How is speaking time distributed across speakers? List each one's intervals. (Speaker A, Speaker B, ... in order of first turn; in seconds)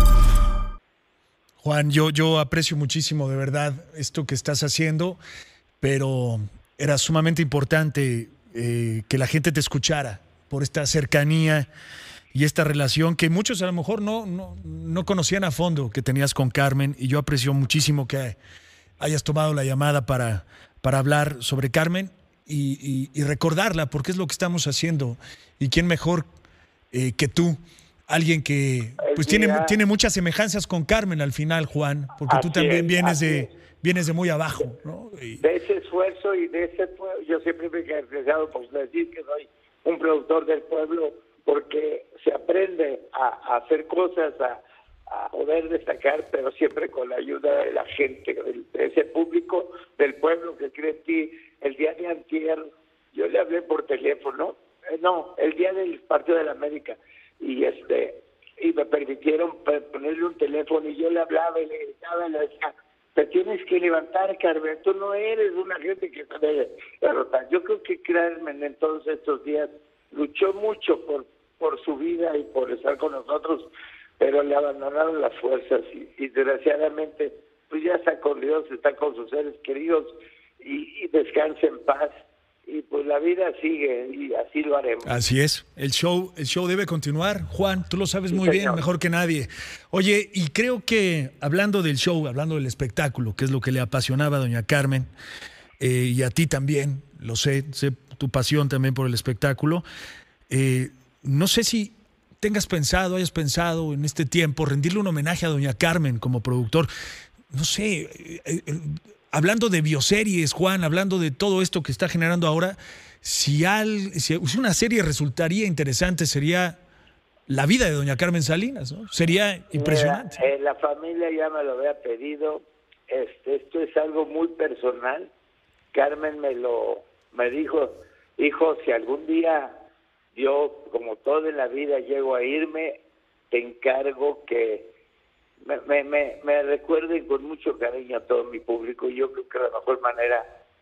Speaker A: 1.6-5.2, 5.8-11.7, 12.3-18.4, 19.0-26.2, 26.9-35.4, 85.0-95.1, 95.8-99.8, 100.5-106.9, 107.5-116.8, 117.5-120.4
Speaker B: 29.0-29.8, 32.3-33.5, 35.4-82.1, 82.7-85.1, 88.3-88.8, 119.7-125.3, 125.9-129.7, 130.3-134.9, 135.6-140.4